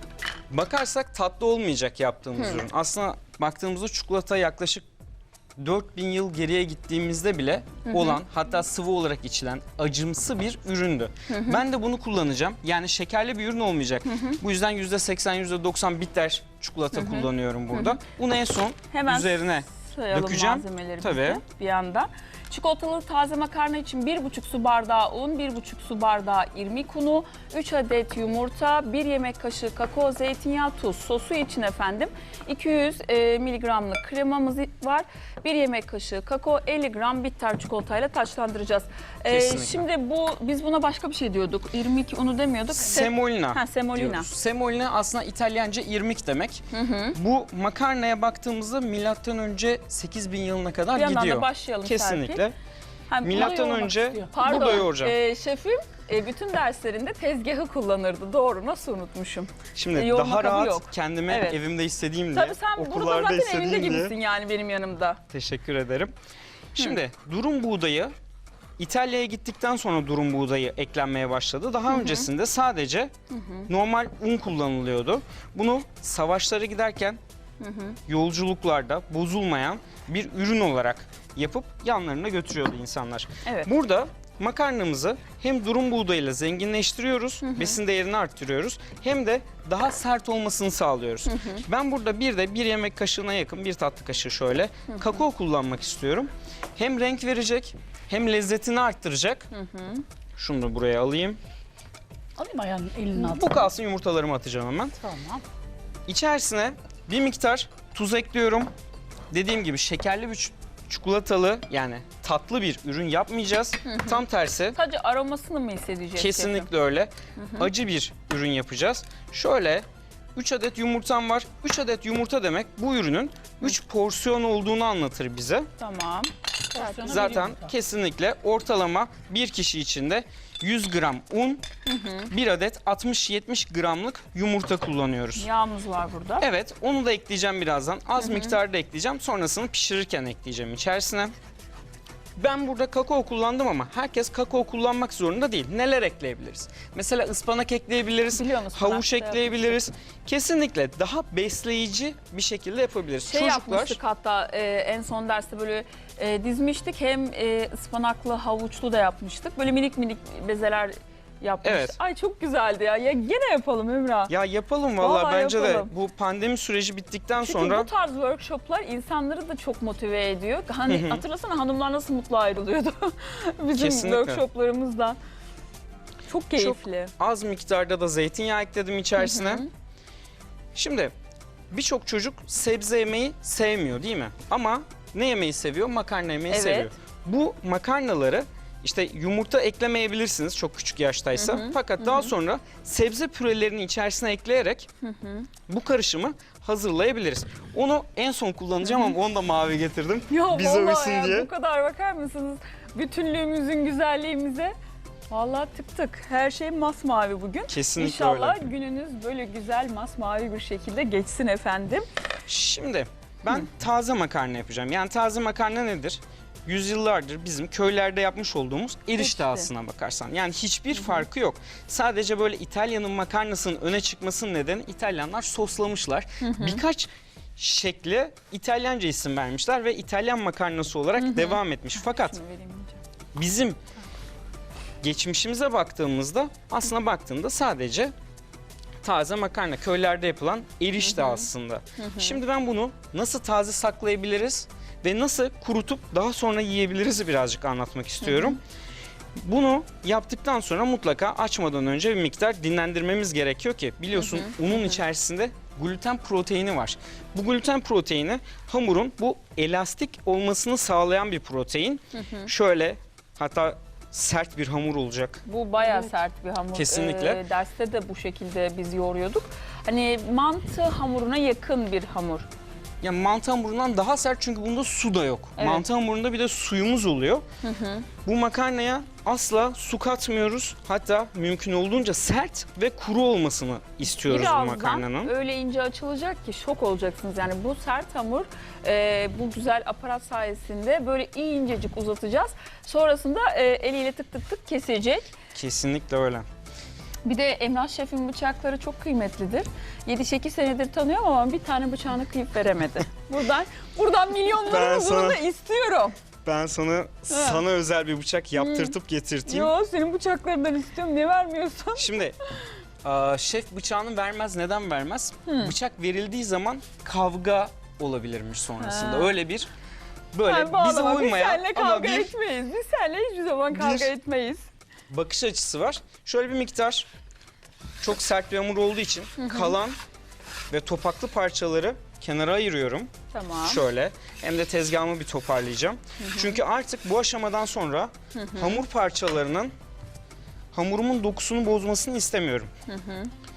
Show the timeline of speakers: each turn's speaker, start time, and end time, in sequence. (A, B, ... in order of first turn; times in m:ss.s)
0:00.5-0:04.8 A
0:05.6-0:21.4 A
0:07.8-0:08.2 B
0:11.3-0:11.6 B
0:14.0-0:14.4 B
0:16.9-0:18.0 B
0:18.9-0:44.3 B
0:39.2-0:39.8 A
0:42.8-0:52.6 A
0:46.7-0:47.2 B
0:50.9-0:52.4 B
0:53.1-1:01.6 B
0:53.2-0:55.1 A
0:53.3-0:54.8 C
0:59.7-1:04.1 A
1:02.3-1:05.2 B
1:05.3-1:06.1 A
1:06.7-1:08.1 A
1:08.8-1:13.1 A
1:11.9-1:12.3 B
1:13.3-1:13.7 B
1:13.7-1:17.2 A
1:17.6-1:18.0 B
1:18.1-1:39.5 A
1:27.4-1:27.8 B
1:31.2-1:31.6 B
1:34.9-1:35.2 B
1:39.5-1:40.0 B
1:40.4-1:41.4 A
1:42.4-1:43.7 C
1:43.2-1:45.0 A
1:45.0-1:45.4 C
1:46.1-1:48.7 A
1:49.3-1:54.8 A
1:53.8-1:54.2 B
1:54.7-1:56.7 B
1:56.2-2:05.7 A
1:57.4-1:57.7 B
2:05.8-2:07.3 B
2:06.7-2:07.7 C
2:07.0-2:11.6 A
2:11.8-2:12.3 B
2:12.3-2:15.5 A
2:15.4-2:16.5 B
2:16.4-2:21.3 A
2:18.2-2:18.6 B
2:22.4-2:34.0 A
2:28.3-2:29.8 B
2:33.2-2:44.3 B
2:41.6-2:42.0 A
2:44.3-2:47.9 A
2:45.0-2:45.9 B
2:47.4-2:55.2 B
2:50.9-2:51.2 A
2:53.8-2:54.4 A
2:56.3-2:57.1 B
2:56.5-2:59.6 A
2:59.2-2:59.7 B
3:00.7-3:01.1 A
3:01.7-3:14.9 A
3:06.5-3:06.9 B
3:11.3-3:12.3 B
3:15.0-3:15.5 B
3:15.7-3:21.5 A
3:18.8-3:19.1 B
3:20.3-3:24.7 B
3:25.3-3:32.1 B
3:27.7-3:28.6 A
3:32.5-3:52.4 A
3:39.2-3:39.7 B
3:40.9-3:41.2 B
3:46.4-3:46.8 B
3:51.2-3:53.0 B
3:53.3-3:53.8 A
3:55.0-3:58.1 A
3:59.0-4:08.6 A
4:01.0-4:02.4 B
4:08.2-4:08.6 B
4:09.4-4:25.4 A
4:14.2-4:15.0 B
4:22.1-4:22.5 B
4:25.4-4:32.5 B
4:26.7-4:27.4 A
4:33.0-4:37.4 A
4:35.6-4:35.8 B
4:37.6-4:38.1 B
4:38.2-4:45.3 A
4:44.2-4:55.3 B
4:55.5-4:56.5 A
4:57.2-5:06.2 B
5:04.6-5:05.4 A
5:06.4-5:09.7 A
5:07.3-5:07.6 B
5:08.6-5:08.9 B
5:09.4-5:12.2 B
5:12.0-5:12.3 A
5:13.0-5:19.7 A
5:15.4-5:15.7 B
5:18.8-5:19.3 B
5:20.3-5:22.3 A
5:20.4-5:24.6 B
5:23.7-5:24.1 A
5:25.1-5:27.1 A
5:28.0-5:30.0 A
5:29.4-5:29.8 B
5:30.7-5:39.7 A
5:33.3-5:33.8 B
5:36.2-5:36.6 B
5:38.3-5:38.8 B
5:40.7-5:42.7 A
5:42.9-5:43.3 B